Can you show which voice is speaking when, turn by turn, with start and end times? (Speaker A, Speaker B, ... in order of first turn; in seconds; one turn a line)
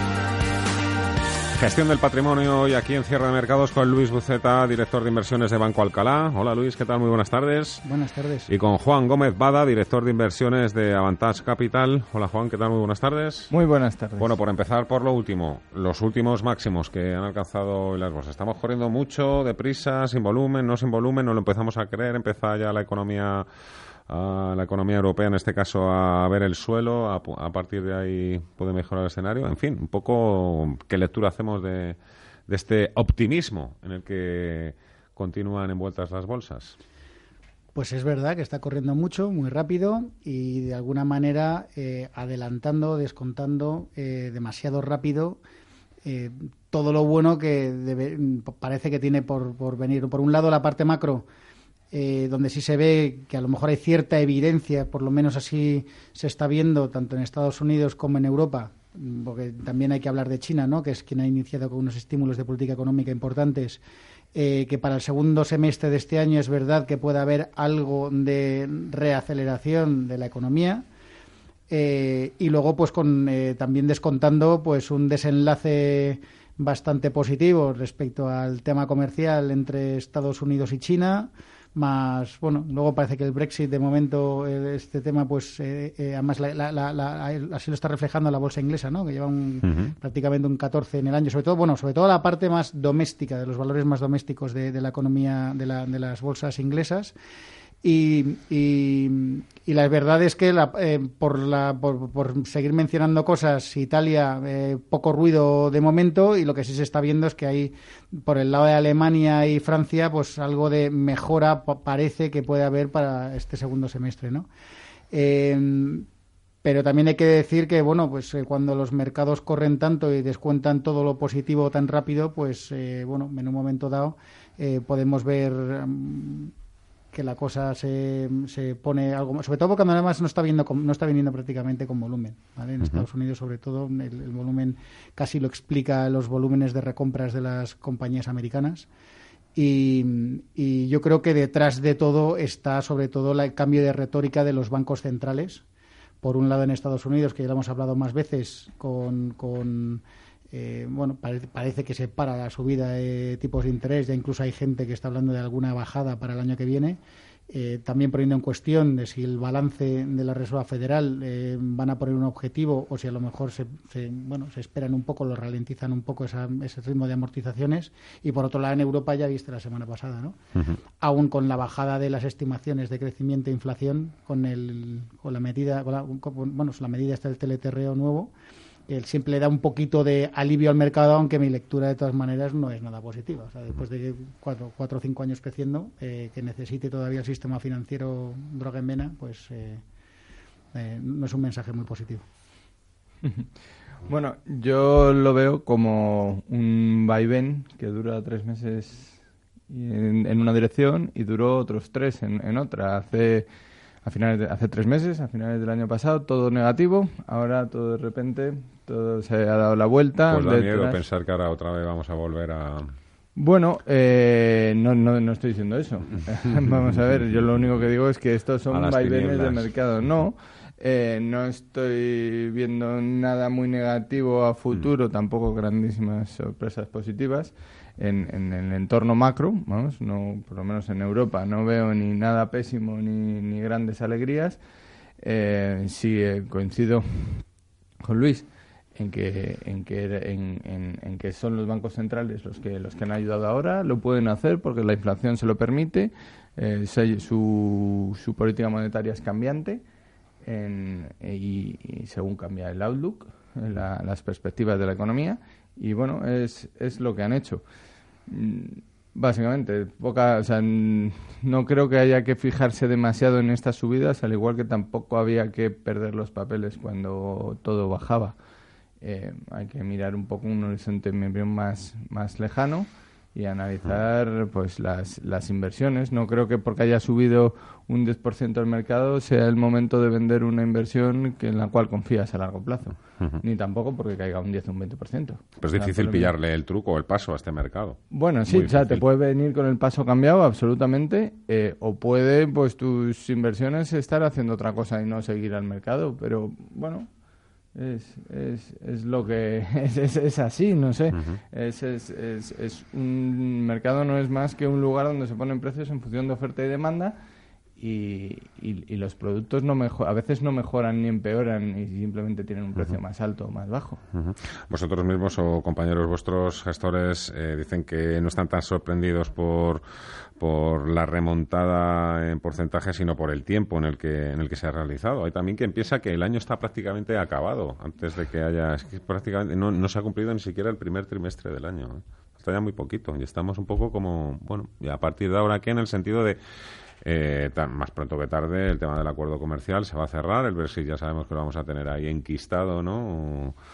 Speaker A: 1.6-7.8
Speaker B: 7.8-8.5
Speaker A: 8.5-13.5
Speaker C: 13.5-14.3
Speaker A: 14.2-23.4
Speaker A: 24.1-36.7
Speaker B: 37.7-45.4
Speaker B: 46.0-51.2
Speaker B: 51.9-63.8
Speaker B: 64.3-70.8
Speaker B: 71.7-97.1
Speaker B: 97.8-114.5
Speaker B: 115.1-116.0
Speaker B: 116.6-126.5
Speaker B: 127.1-138.9
Speaker B: 139.5-145.6
Speaker B: 146.2-170.4
Speaker B: 171.0-178.3
Speaker B: 178.9-189.8
Speaker B: 190.7-192.2
Speaker C: 194.1-199.2
Speaker C: 199.7-203.5
Speaker C: 204.0-211.0
Speaker A: 210.3-212.9
Speaker C: 213.3-234.6
Speaker A: 218.7-219.7
Speaker C: 235.2-237.4
Speaker C: 238.0-249.8
Speaker C: 250.4-257.6
Speaker C: 258.3-268.3
Speaker C: 269.0-286.3
Speaker A: 285.6-289.0
Speaker C: 288.1-297.1
Speaker C: 297.7-307.1
Speaker C: 307.8-314.0
Speaker A: 314.1-319.8
Speaker A: 320.4-336.4
Speaker A: 337.0-343.5